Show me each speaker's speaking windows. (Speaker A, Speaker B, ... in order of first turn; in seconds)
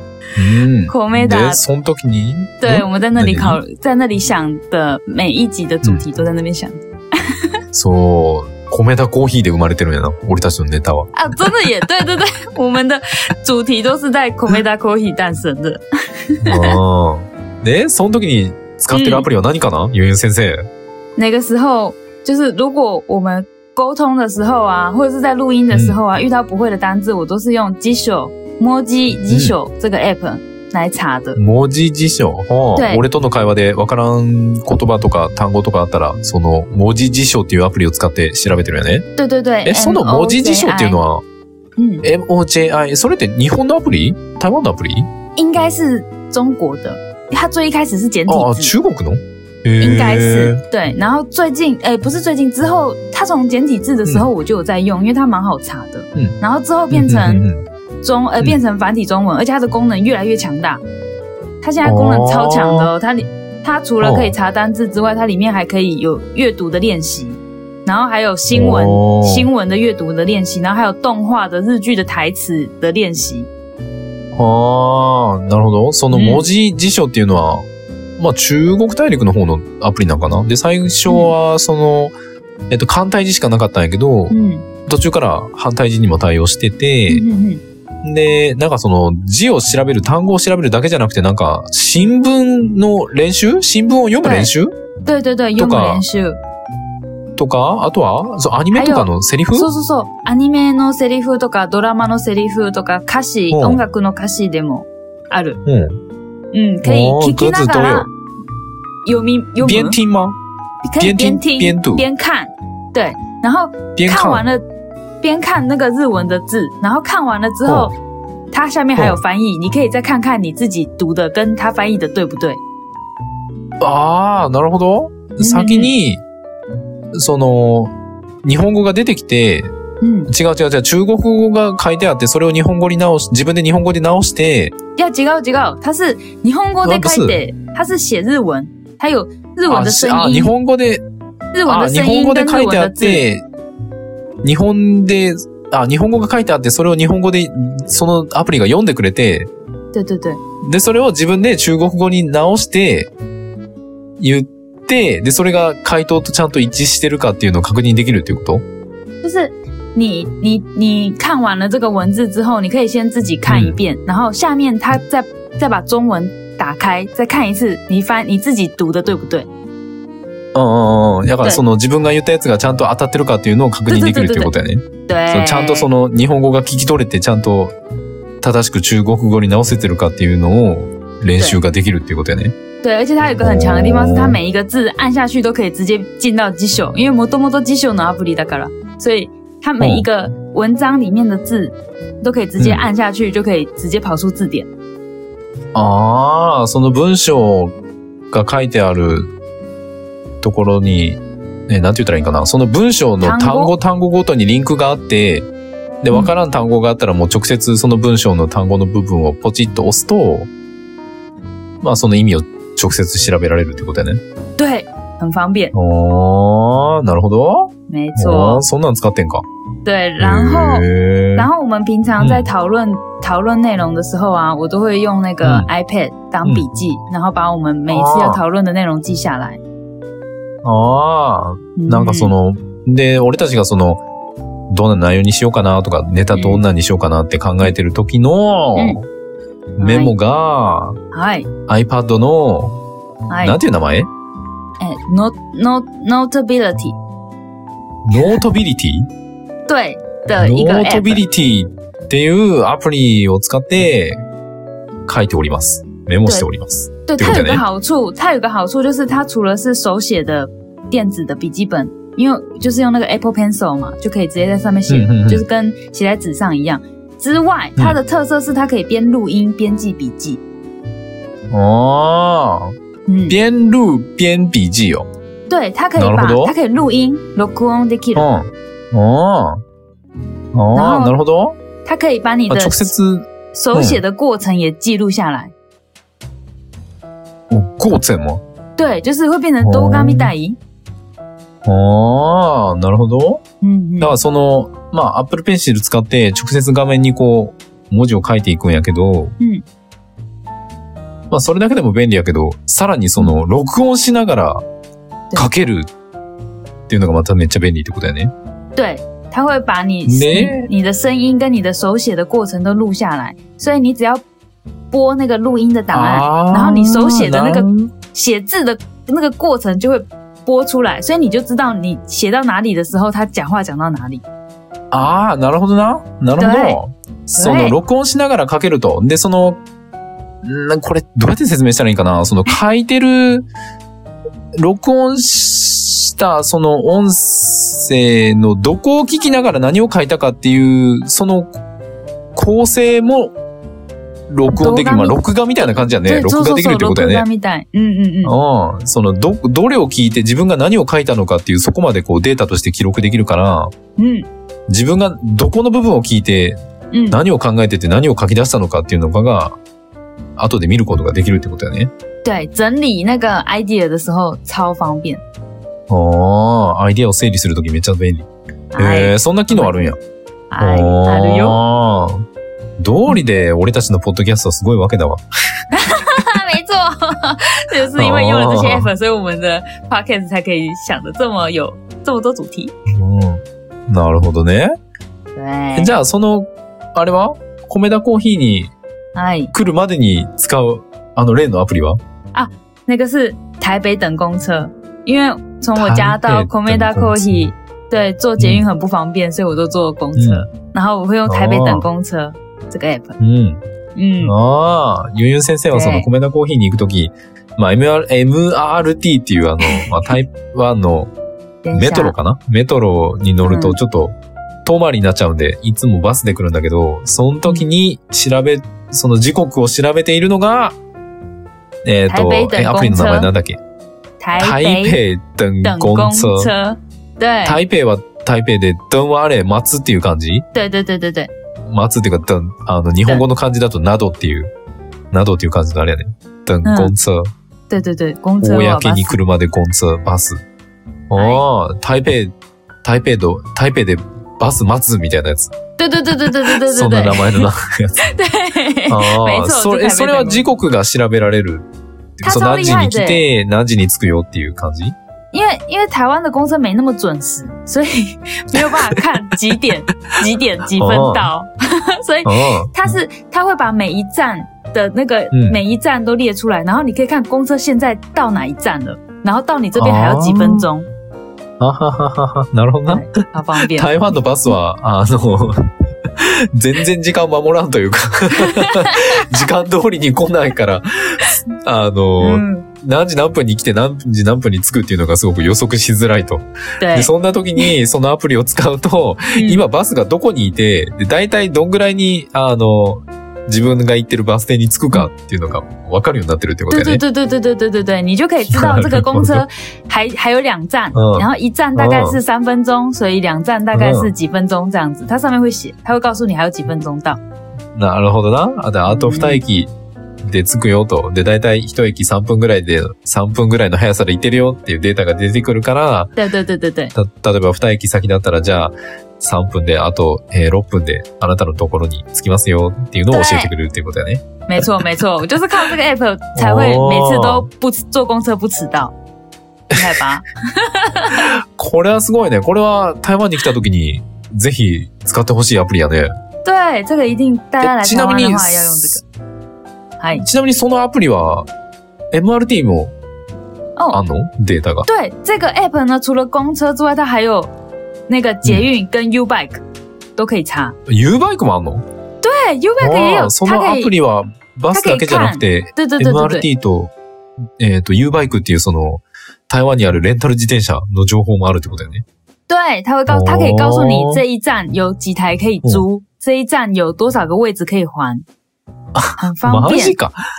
Speaker A: 0.3-3.6, 7.7-11.1, 16.4-20.6, 25.7-26.0, 29.3-29.6, 31.4-39.1, 39.6-41.2, 42.0-45.1, 48.3-50.6, 56.9-57.6, 61.8-62.9, 64.0-64.3, 68.5-69.5, 74.3-77.7, 78.2-82.1, 82.7-84.3, 84.9-87.2, 88.0-94.7, 95.6-96.0, 97.4-99.7, 103.5-103.8, 105.6-106.0, 106.8-108.1, 109.6-110.4, 111.0-112.0, 114.0-114.5, 117.7-117.9, 119.0-119.2, 123.8-126.2, 127.1-129.7, 130.3-134.7, 136.8-137.4, 139.7-141.0, 141.7-143.4, 144.4-149.5, 150.6-153.1, 154.2-158.6, 163.5-163.8, 170.5-177.7, 178.4-182.5, 183.4-184.4, 189.8-190.1, 192.6-192.9, 195.7-197.7, 198.3-199.3, 200.4-205.5, 206.0-210.5, 211.8-214.2, 215.7-219.4, 220.2-221.5, 222.2-222.5, 225.4-225.7, 227.9-228.4, 230.6-234.0, 234.7-239.0, 239.8-241.0, 241.7-242.8, 243.4-244.1, 248.0-249.1, 250.4-254.2, 255.1-257.6, 264.9-265.4, 271.5-272.7, 273.3-275.1, 275.9-276.5, 278.1-279.6, 280.5-281.6, 282.5-284.0, 287.5-288.4, 289.6-290.3, 291.6-293.4, 294.0-299.4, 301.3-304.6, 305.3-305.9, 306.9-308.3, 310.1-310.7, 315.9-317.9, 324.9-329.6, 330.4-333.5, 334.6-341.6, 342.3-343.3, 344.3-347.2, 348.2-353.7, 354.7-356.6, 357.1-359.6, 360.4-361.9, 365.9-370.0, 370.6-372.2, 372.8-375.2, 377.9-378.9, 382.9-384.7, 385.7-388.7, 389.5-392.0, 395.7-397.5, 398.4-398.6, 400.1-400.4, 401.3-401.9, 403.2-403.6, 404.2-411.1, 411.7-420.8, 421.8-423.6, 424.4-426.5, 427.4-430.4, 431.7-434.5, 435.1-437.3, 438.4-440.4, 441.1-442.3, 442.8-445.5, 446.2-448.1, 448.9-451.6, 452.2-454.9, 458.5-459.0, 460.7-461.3, 462.2-463.0, 465.3-465.6, 469.8-470.7, 471.6-497.0, 498.5-499.4, 500.9-502.2, 503.7-504.1, 507.7-509.7, 510.2-516.1, 516.9-524.8, 526.3-527.5, 529.7-530.0, 531.1-536.1, 537.6-539.0, 540.1-541.5, 542.1-542.9, 543.9-544.9, 550.9-551.8, 552.8-556.9, 557.6-562.0, 563.1-564.2, 569.0-570.1
Speaker B: 0.9-1.6, 2.6-7.5, 11.1-16.8, 18.9-19.3, 21.2-31.4, 32.7-33.0, 39.2-41.0, 41.8-42.0, 45.4-48.7, 49.8-57.5, 58.0-60.8, 61.6-73.5, 76.1-76.5, 81.1-81.3, 84.3-84.6, 87.1-87.6, 94.2-94.5, 95.0-96.4, 98.7-105.6, 106.5-108.1, 109.0-110.0, 110.8-114.6, 115.2-117.9, 118.5-122.6, 125.4-125.9, 130.0-130.3, 134.9-140.5, 141.5-143.2, 149.9-150.4, 159.2-169.5, 173.9-174.5, 175.1-175.9, 182.8-194.7, 203.2-203.7, 214.6-215.7, 217.9-218.6, 219.8-229.6, 231.8-232.3, 236.3-236.6, 239.8-240.1, 241.1-241.5, 243.3-243.6, 244.8-247.0, 249.7-251.2, 257.1-270.4, 273.1-273.4, 275.5-278.3, 280.7-281.1, 281.8-282.9, 283.5-285.5, 288.8-290.6, 293.6-294.2, 308.8-314.2, 314.9-324.2, 326.4-326.8, 327.4-327.8, 344.6-348.3, 354.0-354.3, 356.9-357.2, 362.2-365.2, 368.7-369.9, 370.5-371.6, 375.7-382.7, 385.3-385.9, 389.1-389.5, 392.3-403.2, 403.9-404.3, 405.7-406.1, 409.6-409.9, 411.6-412.1, 413.4-413.8, 422.1-423.3, 424.2-425.0, 425.6-427.6, 430.5-431.3, 436.6-436.9, 437.7-439.2, 441.1-441.4, 445.8-447.5, 448.0-450.5, 452.2-453.2, 455.3-470.9, 472.9-474.1, 478.4-479.3, 482.2-482.6, 486.8-487.7, 489.3-489.6, 496.7-507.2, 508.9-509.4, 516.2-516.9, 523.1-523.5, 524.5-528.9, 529.7-531.3, 536.4-539.0, 540.0-540.2, 543.8-544.0, 544.9-547.5, 548.1-549.6, 550.2-550.8, 552.2-553.9, 554.7-556.5, 562.5-568.2, 569.2-569.9